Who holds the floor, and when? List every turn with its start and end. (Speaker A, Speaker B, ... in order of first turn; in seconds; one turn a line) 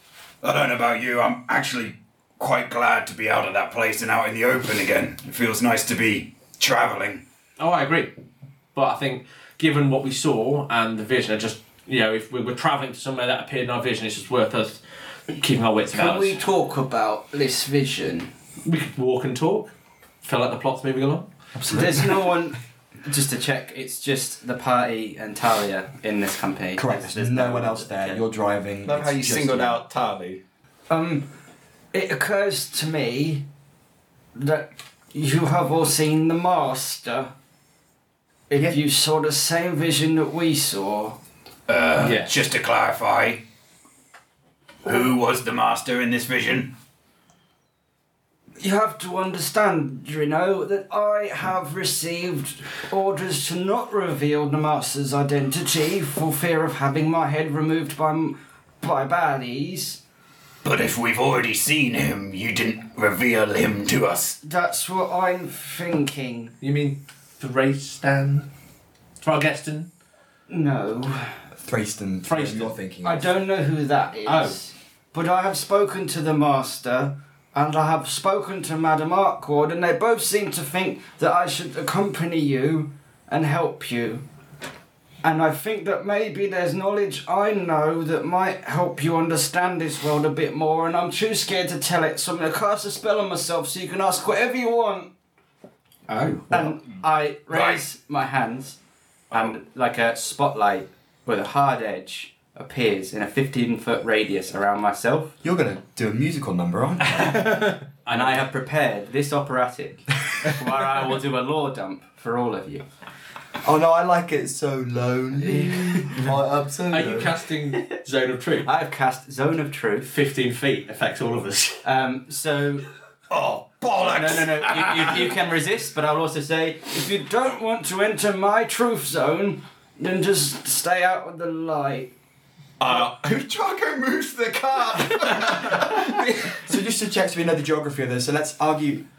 Speaker A: 0.4-7.2
Speaker B: 7.6-8.1
Speaker B: 8.7-14.8
Speaker B: 15.3-16.4
Speaker C: 15.9-18.3
Speaker B: 18.6-19.7
Speaker B: 20.2-21.3
Speaker D: 21.6-22.3
Speaker C: 21.7-22.6
Speaker E: 23.0-28.2
Speaker D: 26.7-29.8
Speaker F: 28.8-30.4
Speaker C: 30.9-31.3
Speaker C: 31.9-33.4
Speaker C: 34.3-37.3
Speaker C: 38.5-41.2
Speaker A: 41.7-43.4
Speaker B: 42.0-42.3
Speaker A: 44.8-46.7
Speaker C: 48.6-60.0
Speaker A: 60.6-64.4
Speaker C: 64.4-66.5
Speaker B: 66.6-68.5
Speaker B: 69.2-69.9
Speaker C: 70.5-71.3
Speaker D: 71.6-73.3
Speaker B: 72.2-72.7
Speaker C: 73.0-84.2
Speaker B: 74.2-74.6
Speaker C: 85.2-95.1
Speaker E: 96.1-96.8
Speaker C: 96.5-98.8
Speaker A: 97.5-97.9
Speaker E: 99.3-105.3
Speaker D: 105.4-107.6
Speaker B: 107.1-108.5
Speaker E: 108.1-112.8
Speaker D: 113.6-117.3
Speaker E: 115.5-116.1
Speaker B: 116.9-118.7
Speaker E: 118.6-120.1
Speaker B: 120.1-121.8
Speaker E: 121.8-122.8
Speaker A: 123.3-125.3
Speaker E: 124.0-126.9
Speaker C: 126.9-132.1
Speaker A: 132.8-133.2
Speaker F: 132.8-135.8
Speaker D: 136.6-139.0